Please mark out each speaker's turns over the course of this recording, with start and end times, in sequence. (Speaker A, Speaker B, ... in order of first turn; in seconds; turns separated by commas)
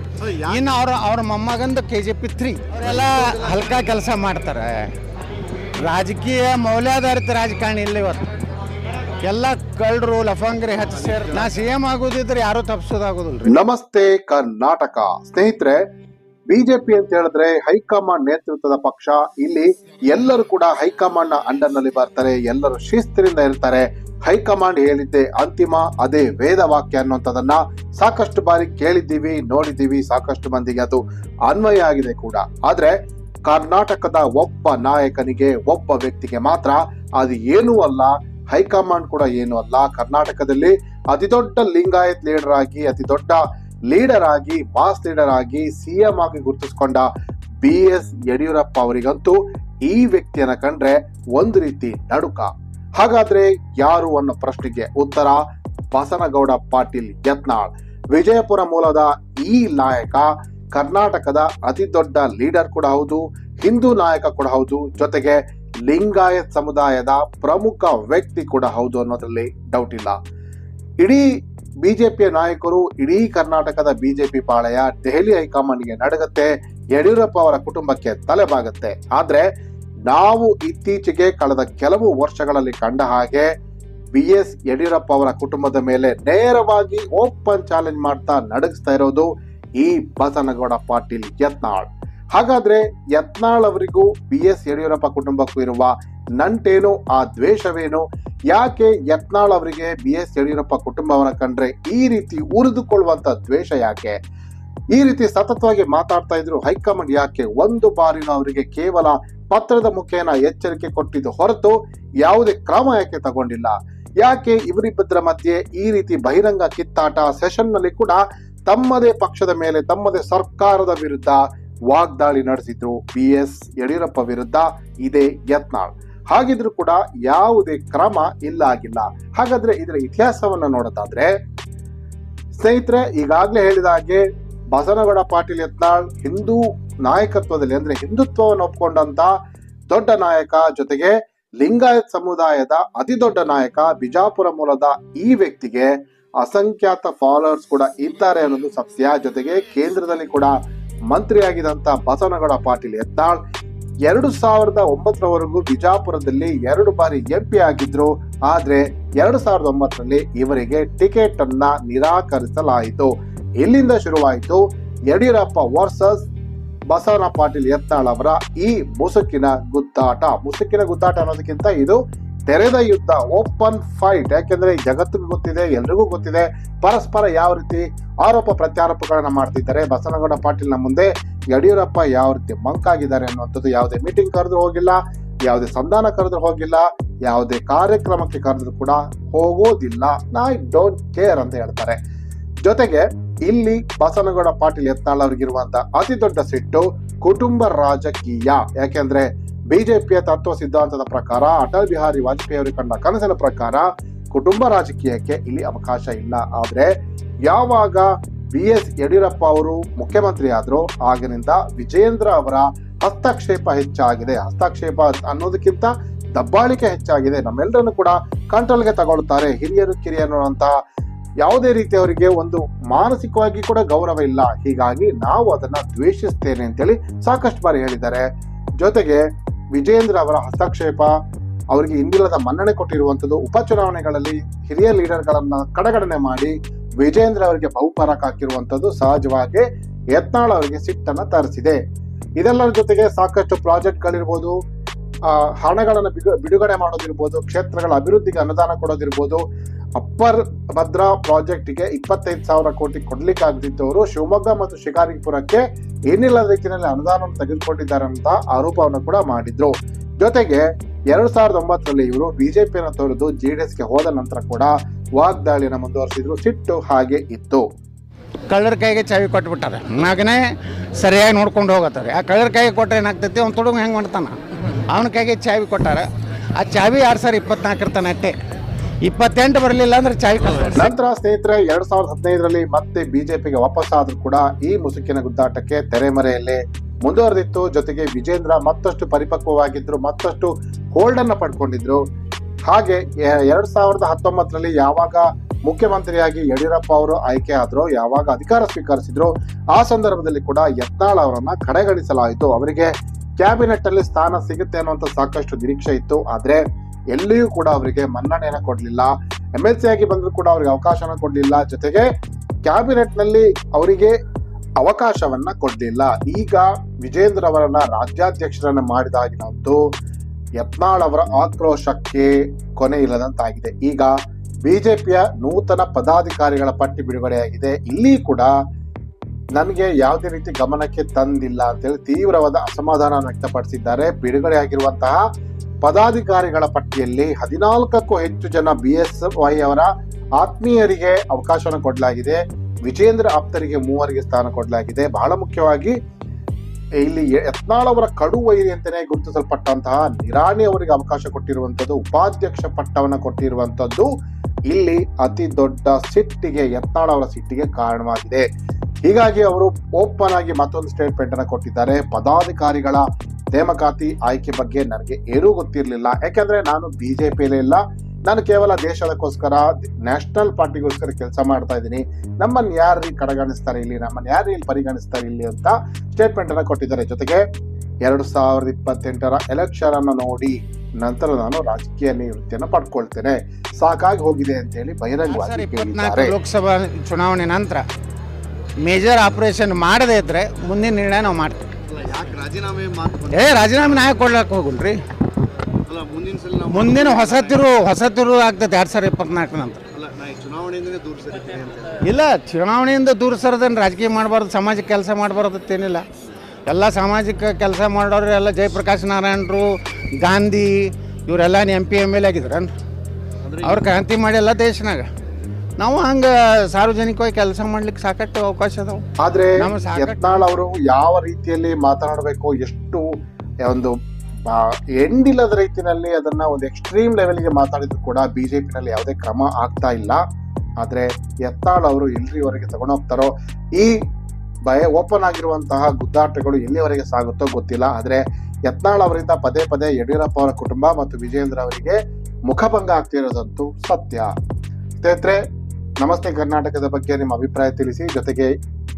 Speaker A: 0.2-0.6, Speaker B: 0.4-4.9, Speaker A: 2.8-3.8, Speaker B: 5.8-8.2, Speaker B: 9.2-13.6, Speaker A: 10.9-11.6, Speaker C: 13.5-15.8, Speaker C: 16.5-33.0, Speaker C: 33.5-47.1, Speaker C: 47.6-55.4, Speaker C: 55.9-70.2, Speaker C: 71.0-71.3, Speaker C: 71.8-79.5, Speaker C: 80.1-83.5, Speaker C: 84.1-104.2, Speaker C: 104.9-131.3, Speaker C: 132.6-139.3, Speaker C: 139.9-145.9, Speaker C: 146.4-150.5, Speaker C: 151.1-153.4, Speaker C: 154.1-166.3, Speaker C: 166.9-172.0, Speaker C: 172.5-192.0, Speaker C: 192.7-206.9, Speaker C: 207.5-220.7, Speaker C: 221.4-228.3, Speaker C: 228.8-229.2, Speaker C: 229.8-231.1, Speaker C: 231.7-241.8, Speaker C: 242.4-244.6, Speaker C: 245.3-249.4, Speaker C: 250.0-267.6, Speaker B: 268.5-270.4, Speaker B: 271.0-274.4, Speaker B: 274.9-276.1, Speaker B: 276.6-278.4, Speaker B: 279.1-280.9, Speaker C: 280.7-292.0, Speaker C: 292.7-306.6, Speaker C: 307.1-312.1, Speaker C: 312.6-314.2, Speaker C: 314.8-319.8, Speaker C: 320.6-324.1, Speaker C: 324.7-328.5, Speaker C: 329.6-335.2, Speaker C: 335.8-346.0, Speaker C: 347.0-354.1, Speaker C: 354.7-358.4, Speaker C: 359.1-363.0, Speaker C: 363.6-377.4, Speaker C: 378.1-386.4, Speaker B: 385.2-387.8, Speaker B: 388.8-391.7, Speaker A: 391.9-394.1, Speaker B: 393.3-395.0, Speaker A: 395.9-397.6, Speaker B: 396.7-399.8, Speaker A: 399.9-402.1, Speaker B: 402.0-406.1, Speaker B: 406.7-412.7, Speaker A: 413.4-413.9, Speaker B: 413.6-415.1, Speaker B: 415.8-419.1, Speaker C: 419.2-423.1, Speaker B: 419.6-420.5, Speaker C: 423.6-423.9, Speaker C: 424.5-430.2, Speaker C: 430.8-434.0, Speaker C: 434.7-444.3, Speaker C: 445.0-445.4, Speaker C: 446.0-448.5